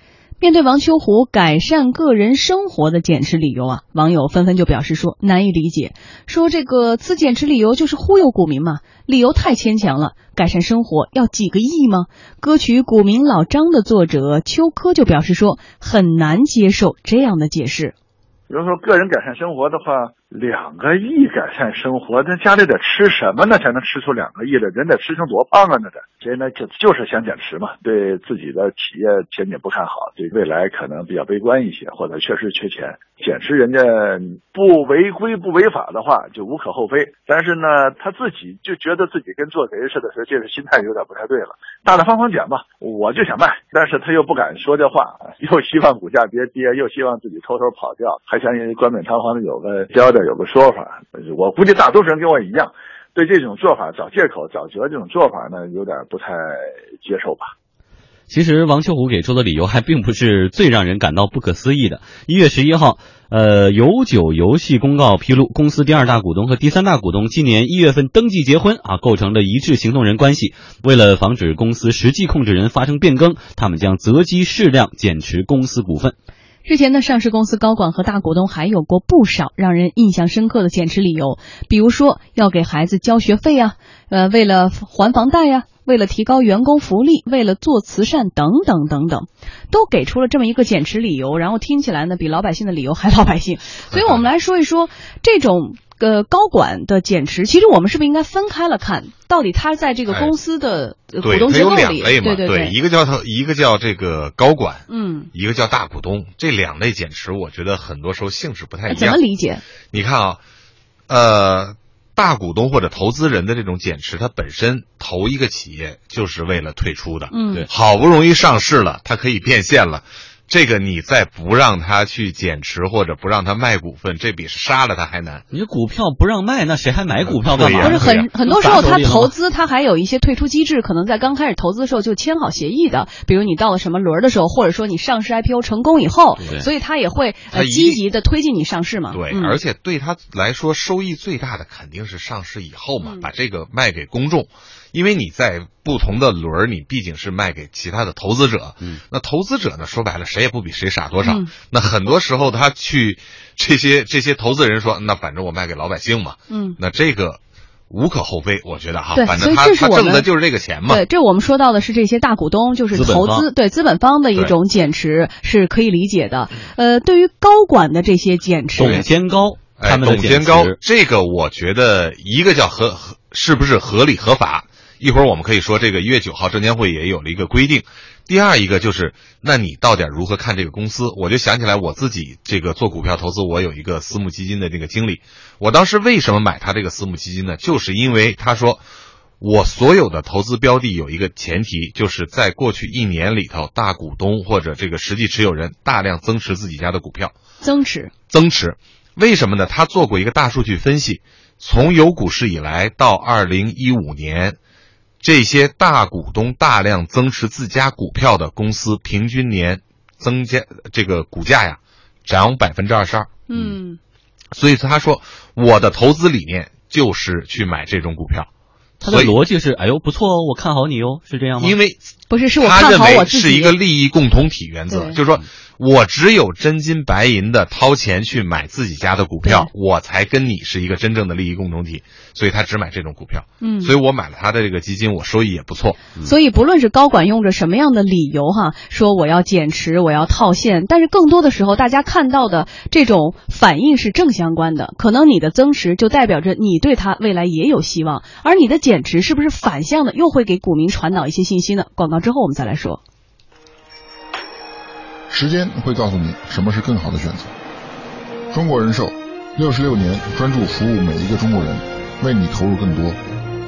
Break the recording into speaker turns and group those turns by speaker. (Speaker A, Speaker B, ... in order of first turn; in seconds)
Speaker A: 0.4-17.9, 76.6-102.7, 104.9-105.3, 108.9-109.6, 117.3-117.6, 127.7-139.6, 143.0-143.3, 151.2-151.5, 156.5-156.8, 159.1-169.0, 197.6-198.1, 213.5-214.0, 222.3-223.8, 224.9-225.2, 229.4-229.7, 233.6-233.9, 236.2-253.0
Speaker B: 18.5-57.5
Speaker C: 58.3-76.1, 125.5-129.3, 136.4-136.7, 162.9-163.5, 168.8-170.8, 219.0-221.8
Speaker D: 93.9-94.2, 101.2-109.2, 109.9-110.4, 111.1-125.4, 127.4-128.8, 137.5-138.0, 139.1-161.0, 169.8-188.8, 189.4-197.3, 198.3-204.6, 205.2-213.3, 214.5-218.5, 219.0-219.4, 221.6-236.0
Speaker E: 255.3-257.5, 258.5-263.2